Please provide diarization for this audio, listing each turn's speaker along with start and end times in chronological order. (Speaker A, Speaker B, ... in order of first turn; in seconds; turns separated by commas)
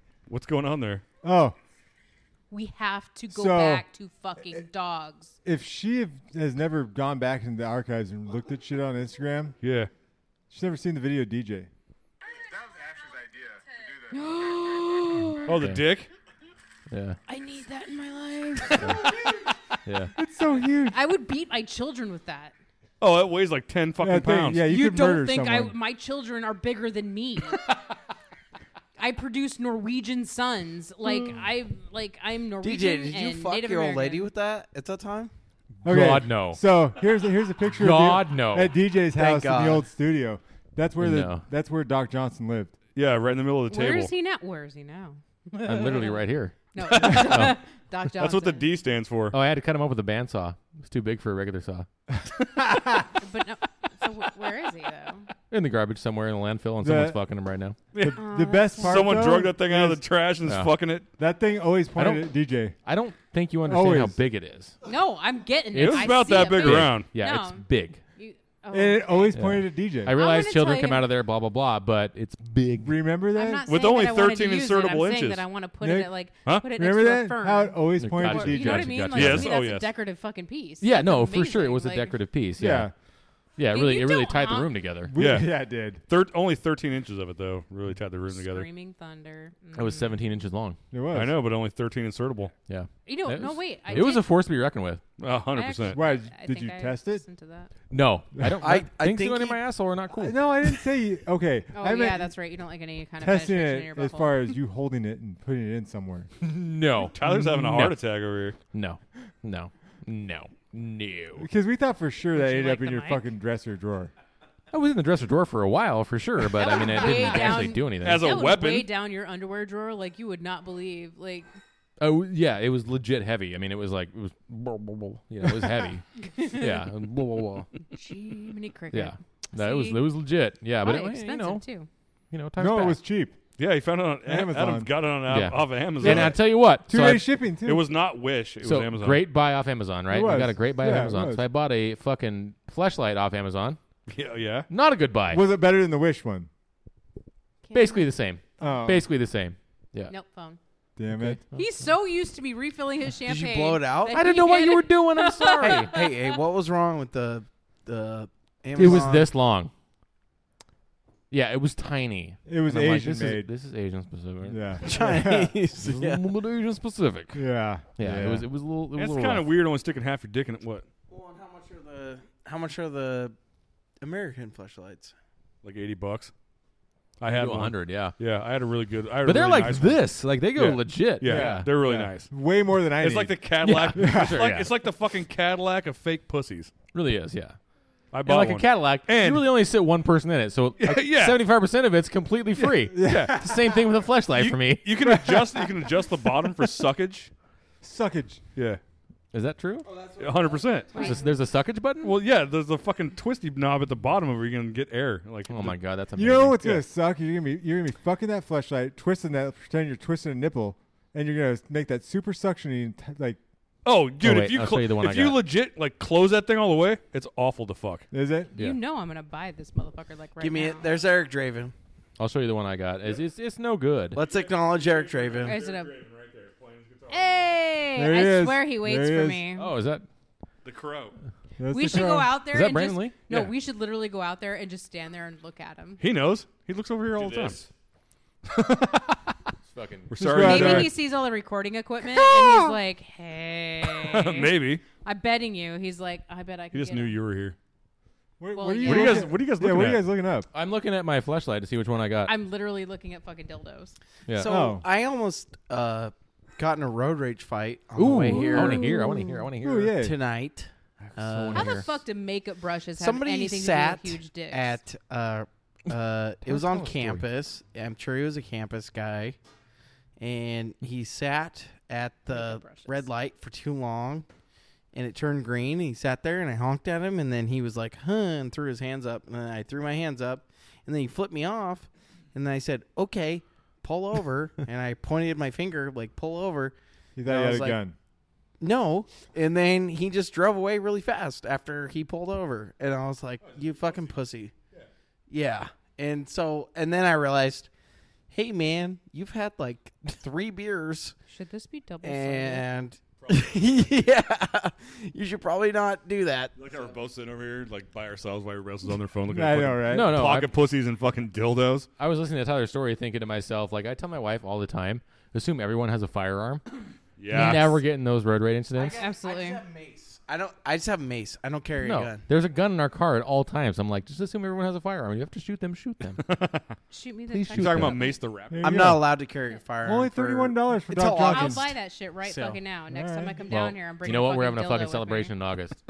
Speaker A: 0.3-1.0, Speaker B: 1.2-1.6, Speaker C: 2.5-5.3, Speaker B: 3.3-3.8, Speaker B: 5.4-9.6, Speaker A: 9.6-9.9, Speaker B: 10.5-11.7, Speaker B: 12.8-13.6, Speaker C: 14.1-15.5, Speaker A: 15.4-16.1, Speaker D: 16.9-17.2, Speaker C: 17.3-19.1, Speaker D: 18.8-19.1, Speaker D: 19.9-20.1, Speaker B: 20.2-21.0, Speaker C: 20.9-22.5, Speaker A: 23.0-24.6, Speaker B: 24.0-25.7, Speaker C: 24.6-27.6, Speaker C: 29.0-34.3, Speaker E: 32.6-35.3, Speaker B: 35.8-42.8, Speaker D: 35.8-36.6, Speaker D: 37.8-38.7, Speaker E: 39.1-39.9, Speaker D: 41.0-41.4, Speaker A: 42.9-44.1, Speaker C: 43.7-48.7, Speaker D: 45.6-47.6, Speaker A: 46.9-47.5, Speaker A: 48.2-49.4, Speaker D: 49.3-51.9, Speaker B: 52.6-53.0, Speaker C: 53.2-55.3, Speaker D: 55.5-57.8, Speaker B: 56.8-57.2, Speaker A: 57.9-61.1, Speaker B: 58.0-60.0, Speaker C: 58.1-59.0, Speaker D: 60.5-60.7, Speaker B: 61.2-62.8, Speaker D: 62.0-64.8, Speaker B: 63.6-64.2, Speaker C: 64.8-69.4, Speaker A: 65.7-67.1, Speaker D: 65.7-68.0, Speaker B: 68.7-70.2, Speaker D: 69.3-73.0, Speaker C: 70.1-71.1, Speaker B: 72.8-73.6, Speaker C: 73.3-82.2, Speaker A: 73.6-75.4, Speaker B: 75.8-76.1, Speaker B: 76.6-79.0, Speaker D: 78.0-79.5, Speaker A: 79.1-79.9, Speaker D: 80.8-82.9, Speaker B: 82.6-82.9, Speaker D: 83.6-85.1, Speaker C: 83.7-84.8, Speaker B: 85.1-86.0, Speaker A: 85.2-85.5, Speaker A: 86.1-88.7, Speaker C: 88.3-90.2, Speaker D: 89.7-90.8, Speaker B: 90.9-91.3, Speaker A: 91.1-92.5, Speaker D: 92.7-95.0, Speaker C: 93.0-94.3, Speaker A: 95.2-96.0, Speaker C: 95.5-97.7, Speaker B: 95.9-97.2, Speaker D: 97.9-100.4, Speaker E: 98.6-99.6, Speaker B: 100.2-102.3, Speaker C: 101.7-104.4, Speaker B: 103.2-106.3, Speaker D: 106.4-108.0, Speaker A: 107.1-108.6, Speaker B: 107.2-107.8, Speaker D: 108.7-111.5, Speaker B: 111.3-114.1, Speaker C: 112.3-113.2, Speaker D: 114.7-118.2, Speaker C: 116.6-121.5, Speaker A: 118.0-118.9, Speaker D: 122.0-127.7, Speaker C: 126.3-126.8, Speaker C: 127.9-130.0, Speaker D: 128.9-131.6, Speaker C: 130.8-131.9, Speaker D: 132.3-133.0, Speaker B: 132.6-133.4, Speaker A: 133.6-136.4, Speaker B: 134.2-134.9, Speaker D: 135.3-137.3, Speaker B: 136.0-137.8, Speaker A: 137.6-139.2, Speaker D: 138.6-143.8, Speaker B: 140.1-141.4, Speaker A: 144.1-144.7, Speaker D: 144.7-145.4, Speaker B: 145.3-146.5, Speaker C: 147.6-148.1, Speaker D: 147.7-150.1, Speaker B: 148.6-149.1, Speaker C: 150.1-150.6, Speaker B: 151.0-151.4, Speaker D: 151.1-151.6, Speaker C: 151.5-156.2, Speaker E: 153.2-154.2, Speaker D: 154.1-155.9, Speaker E: 155.6-159.3, Speaker D: 158.7-159.7, Speaker D: 161.3-164.6, Speaker B: 162.4-163.5, Speaker B: 164.4-166.0, Speaker E: 164.8-166.2, Speaker D: 165.8-167.4, Speaker B: 167.3-168.4, Speaker D: 168.0-169.4, Speaker A: 168.9-170.8, Speaker E: 171.1-173.3, Speaker E: 174.0-175.1, Speaker A: 175.6-176.3, Speaker A: 177.2-180.0, Speaker D: 177.3-178.2, Speaker D: 179.2-181.7, Speaker A: 180.5-182.3, Speaker B: 181.2-183.4, Speaker A: 183.0-186.7, Speaker D: 183.6-184.7, Speaker B: 183.9-184.5, Speaker D: 186.9-187.6, Speaker A: 188.1-189.5, Speaker D: 188.2-194.8, Speaker A: 190.8-191.4, Speaker A: 192.6-193.3, Speaker B: 192.9-193.8, Speaker A: 194.3-197.3, Speaker B: 195.0-195.7, Speaker B: 197.8-198.4, Speaker D: 199.3-199.9, Speaker E: 199.8-201.1, Speaker A: 200.2-201.1, Speaker C: 200.9-201.2, Speaker D: 200.9-202.2, Speaker A: 202.0-205.8, Speaker D: 205.5-206.8, Speaker B: 206.2-213.4, Speaker A: 213.8-218.1, Speaker D: 214.2-215.4, Speaker B: 218.1-218.5, Speaker C: 218.5-220.9, Speaker E: 220.4-221.7, Speaker D: 222.2-224.2, Speaker E: 224.1-225.6, Speaker A: 224.1-227.6, Speaker C: 225.4-225.9, Speaker C: 227.1-229.7, Speaker B: 227.9-229.5, Speaker D: 229.6-230.1, Speaker A: 230.6-231.1, Speaker B: 231.6-232.3, Speaker C: 231.7-236.0, Speaker D: 232.5-233.2, Speaker A: 236.0-237.7, Speaker D: 237.2-237.7, Speaker A: 238.4-239.2, Speaker D: 239.7-240.4, Speaker A: 240.1-240.9, Speaker B: 240.2-240.9, Speaker C: 240.4-247.2, Speaker B: 242.1-242.7, Speaker A: 244.0-244.8, Speaker A: 246.7-247.6, Speaker B: 248.4-250.5, Speaker C: 248.5-249.3, Speaker A: 248.8-250.1, Speaker D: 250.5-252.3, Speaker C: 252.2-253.9, Speaker D: 254.3-254.5, Speaker E: 254.3-258.9, Speaker B: 254.4-254.8, Speaker D: 257.9-259.9, Speaker C: 258.3-259.4, Speaker B: 259.6-260.1, Speaker E: 260.0-261.8, Speaker D: 261.0-261.9, Speaker C: 261.5-264.8, Speaker E: 263.0-269.4, Speaker D: 266.4-267.2, Speaker E: 270.2-274.3, Speaker C: 272.3-273.0, Speaker E: 274.9-287.8, Speaker B: 287.1-287.9, Speaker E: 288.6-294.5, Speaker A: 293.4-294.1, Speaker E: 295.3-297.7, Speaker E: 298.3-301.2, Speaker C: 301.3-302.6, Speaker E: 302.0-306.9, Speaker A: 303.2-303.9, Speaker A: 306.6-311.9, Speaker B: 309.3-310.2, Speaker D: 309.9-310.6, Speaker D: 312.0-316.6, Speaker A: 317.2-317.8, Speaker D: 317.3-319.0, Speaker E: 318.7-322.2, Speaker C: 319.0-319.6, Speaker D: 321.8-326.2, Speaker A: 326.2-326.6, Speaker C: 326.9-328.2, Speaker D: 327.3-328.0, Speaker A: 327.5-328.9, Speaker B: 328.5-329.0, Speaker E: 328.6-331.7, Speaker B: 329.8-331.7, Speaker C: 331.2-335.3, Speaker B: 332.3-333.5, Speaker D: 333.5-335.8